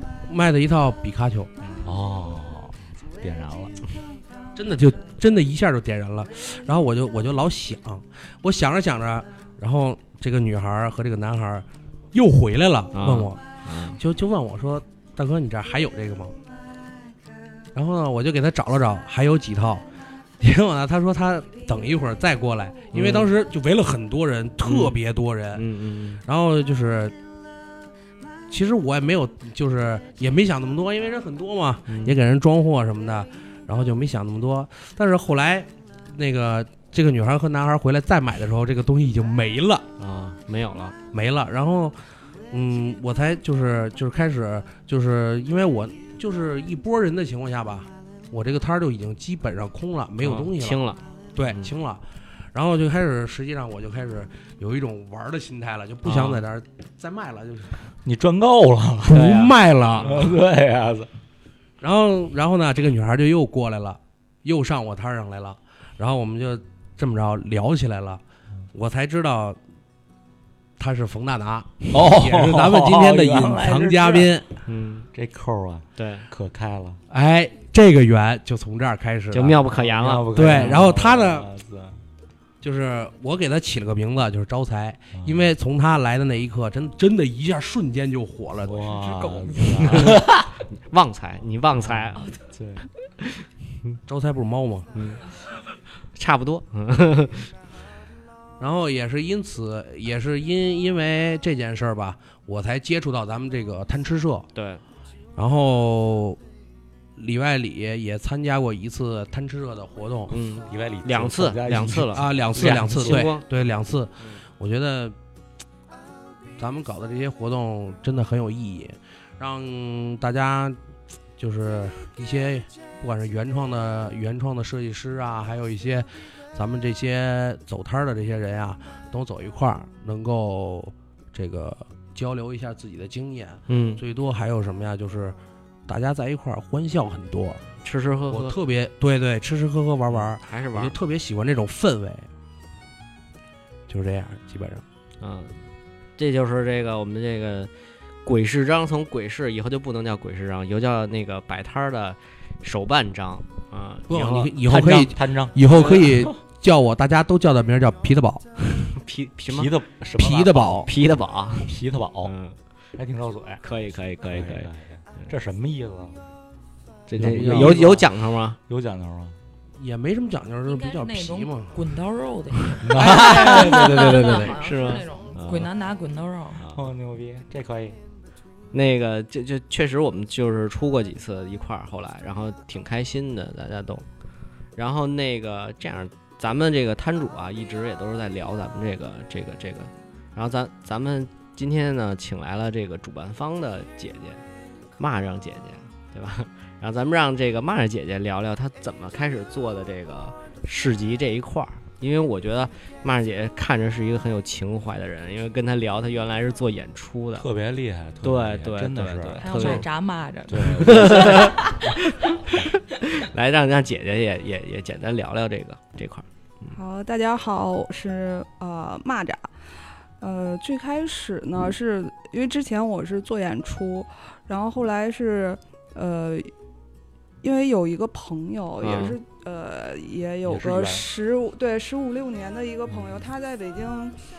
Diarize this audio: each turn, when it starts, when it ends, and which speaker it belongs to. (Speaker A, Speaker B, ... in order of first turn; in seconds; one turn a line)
Speaker A: 0.3-1.5
Speaker B: 1.8-3.8
Speaker A: 4.5-16.4
Speaker C: 12.9-14.0
Speaker A: 17.7-19.8
Speaker A: 20.4-25.6
Speaker C: 22.9-23.3
Speaker C: 24.6-24.9
Speaker C: 25.5-26.2
Speaker A: 26.2-27.1
Speaker A: 28.5-39.9
Speaker C: 31.9-32.1
Speaker C: 40.0-41.0
Speaker A: 41.1-50.8
Speaker C: 50.2-51.7
Speaker A: 51.3-52.0
Speaker A: 52.5-57.8
Speaker C: 56.0-56.4
Speaker B: 58.0-59.5
Speaker A: 59.1-60.3
Speaker C: 59.1-60.2
Speaker B: 60.0-61.1
Speaker A: 61.8-68.2
Speaker A: 68.7-69.6
Speaker A: 70.8-74.5
Speaker B: 71.9-74.3
Speaker C: 74.7-75.1
Speaker B: 75.1-77.0
Speaker C: 76.0-76.3
Speaker A: 77.1-79.6
Speaker C: 79.3-80.9
Speaker B: 79.6-82.0
Speaker A: 80.3-81.5
Speaker A: 82.6-88.8
Speaker B: 85.1-85.5
Speaker B: 88.6-90.5
Speaker D: 88.9-90.1
Speaker C: 89.7-92.2
Speaker B: 91.8-92.8
Speaker A: 94.1-94.9
Speaker C: 94.9-95.2
Speaker C: 96.1-97.5
Speaker A: 98.6-104.5
Speaker C: 104.5-104.8
Speaker A: 105.3-106.4
Speaker A: 107.2-110.3
Speaker C: 110.3-113.4
Speaker B: 110.7-113.3
Speaker A: 112.1-115.1
Speaker A: 116.6-120.8
Speaker A: 121.4-135.3
Speaker C: 133.7-134.0
Speaker A: 135.9-137.6
Speaker C: 137.8-138.5
Speaker A: 138.3-142.3
Speaker C: 140.1-140.9
Speaker A: 143.9-144.8
Speaker C: 145.2-145.6
Speaker C: 146.2-147.7
Speaker C: 148.2-154.5
Speaker A: 154.1-158.4
Speaker B: 154.6-156.3
Speaker C: 158.9-159.7
Speaker B: 159.5-160.9
Speaker A: 160.2-160.9
Speaker C: 160.8-161.7
Speaker B: 161.6-162.3
Speaker C: 162.2-162.6
Speaker B: 162.9-163.6
Speaker C: 163.6-165.3
Speaker B: 164.2-166.2
Speaker C: 167.1-168.6
Speaker B: 167.2-168.1
Speaker A: 167.2-168.0
Speaker B: 168.7-169.3
Speaker A: 169.8-171.8
Speaker D: 170.6-176.7
Speaker B: 172.8-174.0
Speaker C: 172.9-175.7
Speaker A: 173.0-174.5
Speaker B: 176.7-178.0
Speaker C: 178.7-184.1
Speaker C: 184.8-194.4
Speaker C: 195.0-207.4
Speaker B: 207.3-209.9
Speaker C: 208.2-209.9
Speaker D: 209.4-211.8
Speaker B: 210.5-211.8
Speaker C: 210.8-216.7
Speaker E: 216.7-219.5
Speaker E: 220.2-226.5
Speaker E: 227.4-234.2
Speaker C: 228.8-229.2
Speaker B: 230.4-231.1